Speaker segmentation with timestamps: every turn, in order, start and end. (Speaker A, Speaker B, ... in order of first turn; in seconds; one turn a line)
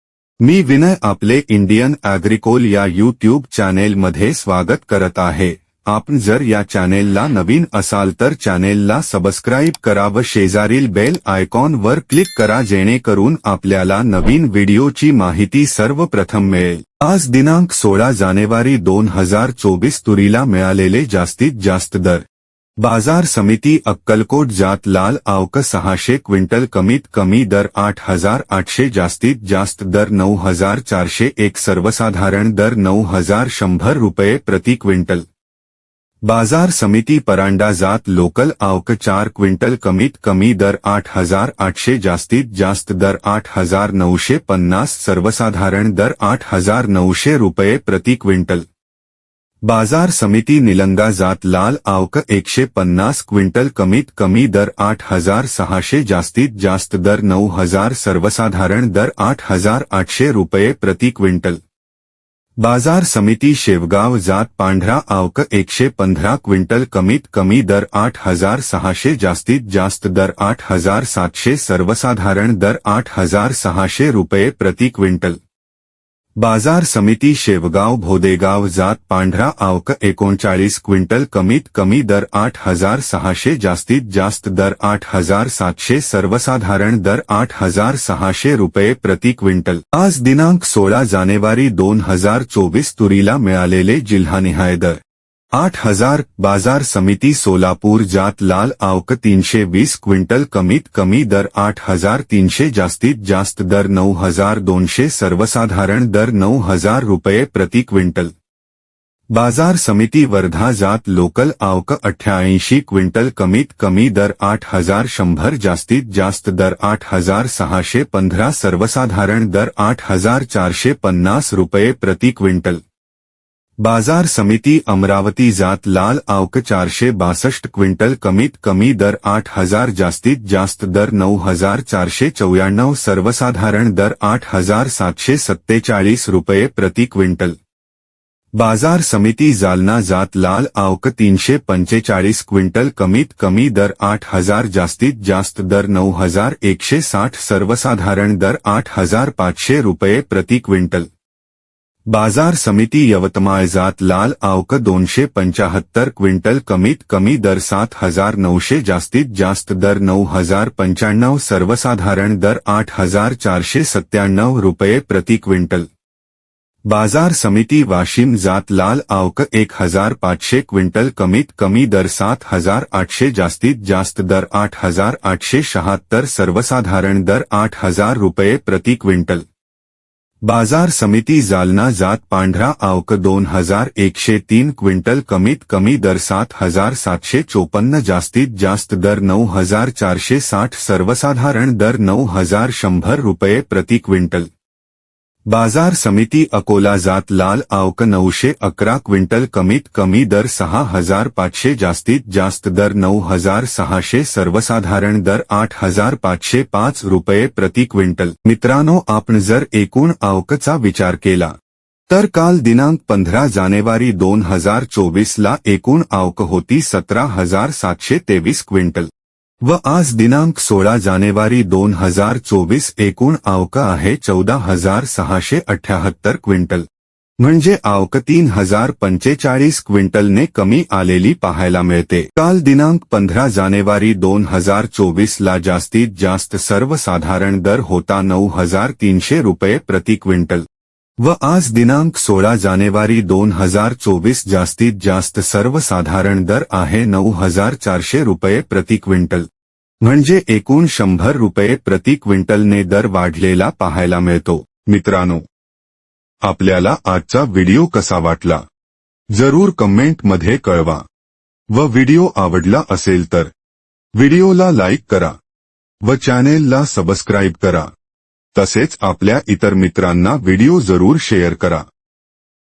Speaker A: 0.4-22.2
Speaker A: 22.8-35.2
Speaker A: 36.3-48.7
Speaker A: 49.7-61.6
Speaker A: 62.6-75.4
Speaker A: 76.4-95.0
Speaker A: 95.5-108.3
Speaker A: 109.3-122.8
Speaker A: 123.8-137.6
Speaker A: 138.6-151.1
Speaker A: 152.1-165.9
Speaker A: 166.9-179.4
Speaker A: 180.4-194.5
Speaker A: 195.5-211.5
Speaker A: 212.1-219.1
Speaker A: 219.6-226.8
Speaker A: 227.4-240.7
Speaker A: 241.2-249.5
Speaker A: 250.0-255.4
Speaker A: 256.4-258.6
Speaker A: 259.3-261.0
Speaker A: 261.7-263.5
Speaker A: 264.1-265.3
Speaker A: 266.0-267.9
Speaker A: 268.5-271.8